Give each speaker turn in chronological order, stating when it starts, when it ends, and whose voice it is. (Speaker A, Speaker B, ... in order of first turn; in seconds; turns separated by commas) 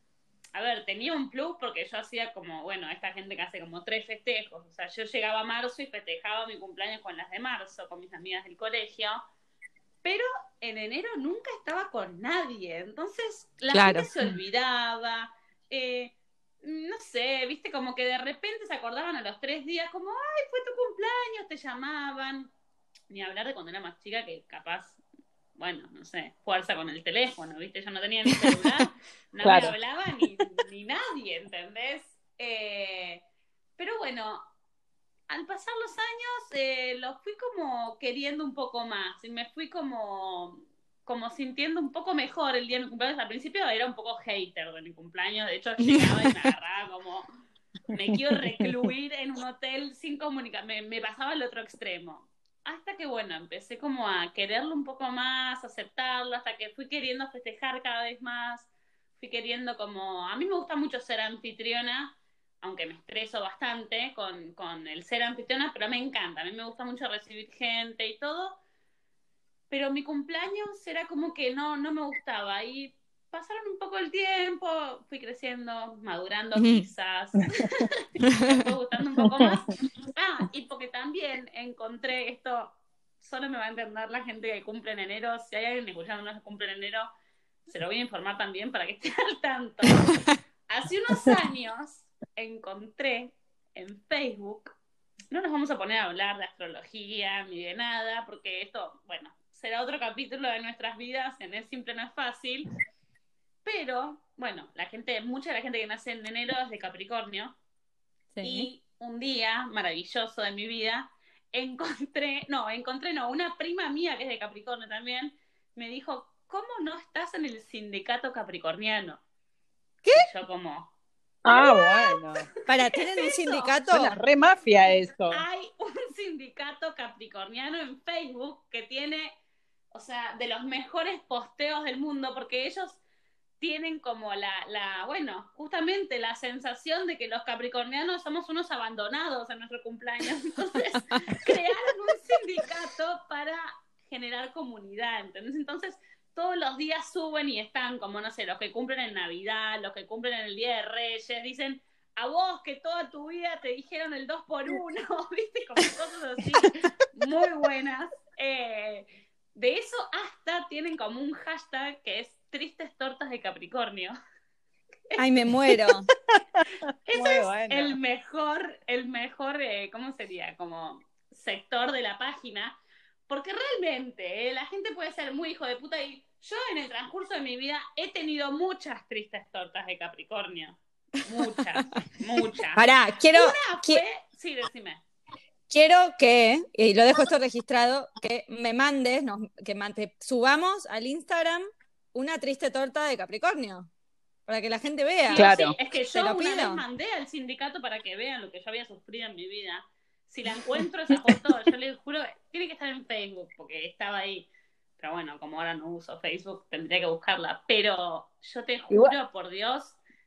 Speaker A: 0.6-9.2, Speaker A: 10.0-22.5, Speaker B: 13.7-14.3, Speaker A: 23.1-25.0, Speaker A: 25.6-33.2, Speaker C: 29.4-29.7, Speaker A: 33.8-34.5, Speaker A: 35.3-47.3, Speaker B: 45.9-46.5, Speaker A: 47.9-68.6, Speaker A: 69.7-87.1, Speaker B: 76.6-76.9, Speaker C: 79.2-79.5, Speaker A: 87.7-90.2, Speaker A: 90.7-94.8, Speaker A: 95.3-102.7, Speaker A: 103.6-107.6, Speaker B: 108.3-108.7, Speaker A: 108.4-119.2, Speaker A: 120.1-120.9, Speaker C: 121.5-122.5, Speaker A: 121.5-122.2, Speaker B: 122.7-124.2, Speaker A: 122.9-123.8, Speaker C: 123.9-125.4, Speaker A: 125.3-129.3, Speaker A: 129.9-133.0, Speaker A: 133.6-164.2, Speaker B: 165.2-166.1, Speaker C: 166.4-168.0, Speaker A: 167.1-172.8, Speaker A: 173.3-185.0, Speaker B: 182.8-184.0, Speaker B: 185.7-193.9, Speaker B: 194.5-196.8, Speaker A: 195.3-210.0, Speaker C: 195.3-195.8, Speaker C: 208.9-209.2